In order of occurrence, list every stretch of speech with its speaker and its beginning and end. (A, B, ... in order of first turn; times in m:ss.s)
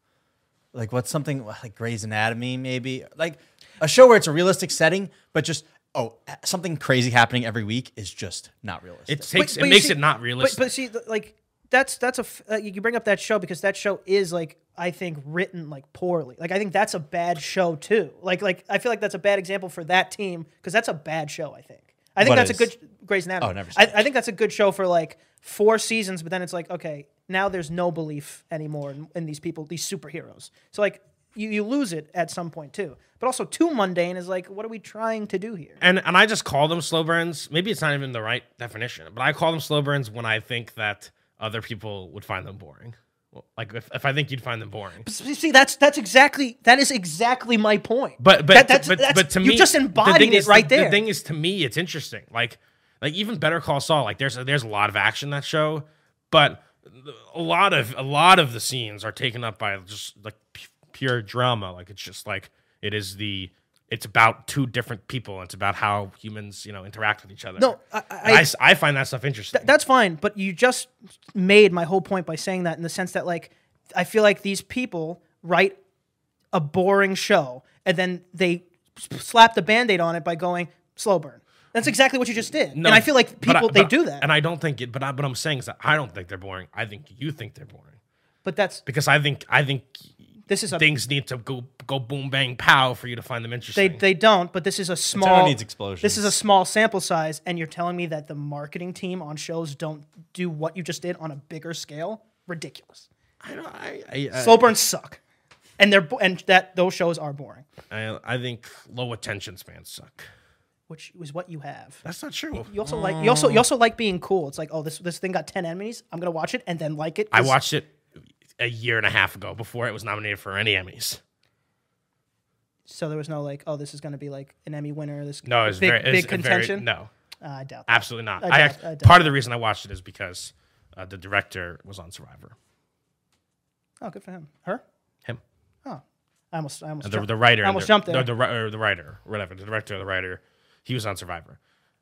0:00.7-0:09.3 A
0:09.1-0:10.7 B
0:09.3-0:35.8 C
0:22.2-0:22.7 A
0:23.4-0:24.1 A
0:35.8-0:45.0 B
0:45.0-0:51.0 C
0:48.2-1:09.7 B
1:07.6-1:08.5 C
1:09.5-1:15.8 C
1:16.5-1:24.2 C
1:22.7-1:28.0 B
1:28.4-1:28.8 C
1:28.8-1:30.1 B
1:30.5-1:30.8 C
1:30.7-1:34.0 B
1:33.7-1:43.1 C
1:35.1-1:36.4 A
1:43.4-1:44.7 B
1:44.3-1:45.2 C
1:45.8-1:47.6 C
1:47.9-1:50.3 B
1:50.9-1:52.0 C
1:52.0-1:52.7 B
1:52.6-1:57.6 C
1:52.8-1:53.6 A
1:57.3-1:57.9 B
1:58.6-2:01.2 B
2:02.9-2:06.9 C
2:05.4-2:07.1 B
2:07.4-2:09.3 C
2:07.9-2:12.5 B
2:14.0-2:14.8 C
2:15.8-2:18.3 C
2:17.0-2:21.6 B